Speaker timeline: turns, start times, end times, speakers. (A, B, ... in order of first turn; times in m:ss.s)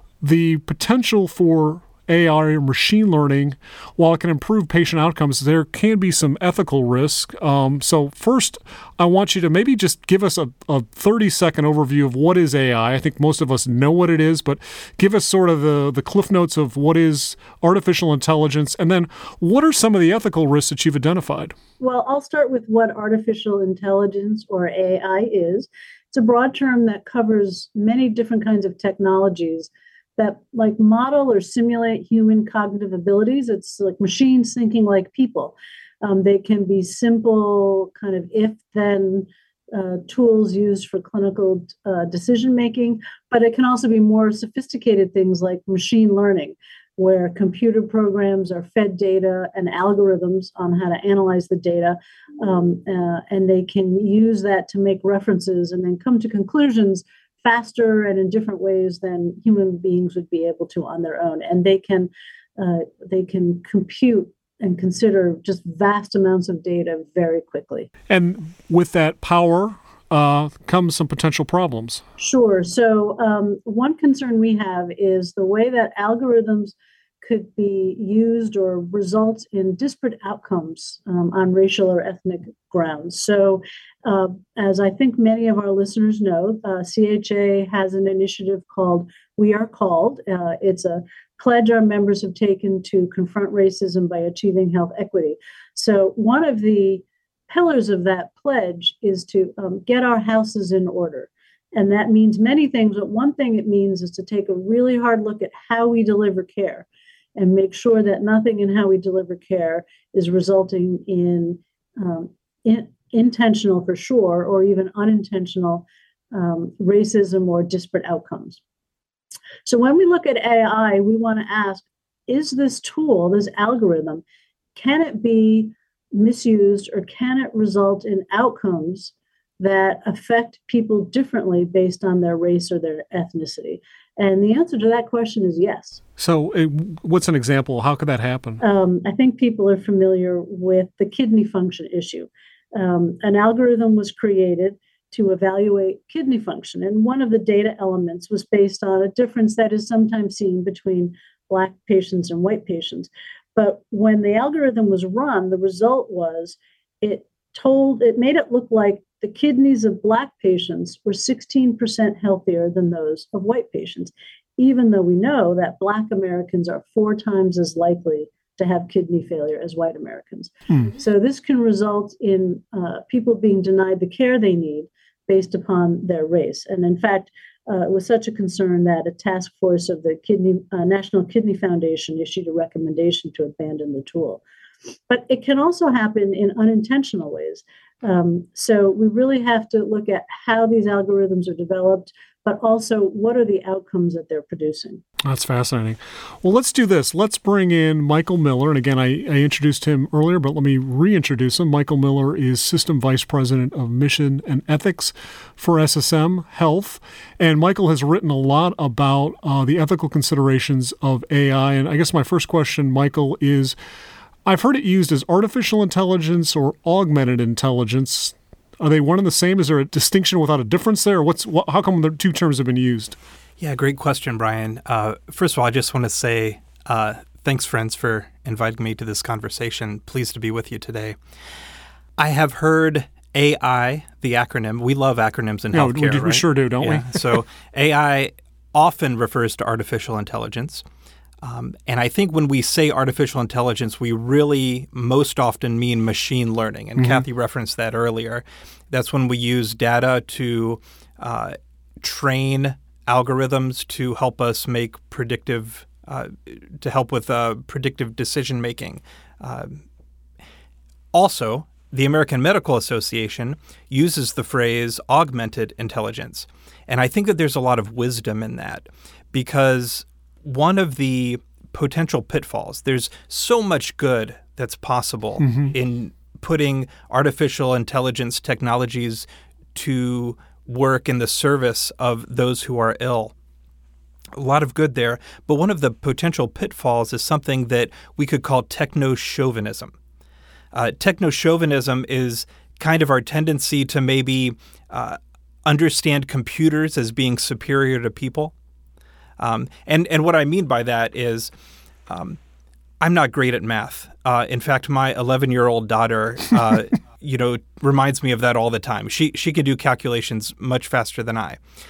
0:00.2-0:21.6 A
0:21.8-1:07.9 B
1:08.1-1:12.0 A
1:12.2-1:58.6 B
1:59.7-2:04.2 B
2:04.8-2:16.0 B
2:16.2-2:18.6 A
2:18.6-3:04.4 B
3:05.1-3:15.0 B
3:15.2-3:33.8 A
3:34.4-3:43.2 A
3:43.6-3:51.2 C
3:52.2-4:00.8 C
3:55.7-3:57.4 A
4:01.4-4:19.8 C
4:07.0-4:07.2 A
4:21.1-4:43.3 C
4:35.4-4:35.8 A
4:44.3-4:50.0 C
4:50.7-4:58.5 C
4:59.4-5:01.5 C
5:02.1-5:02.4 C
5:03.0-5:11.6 C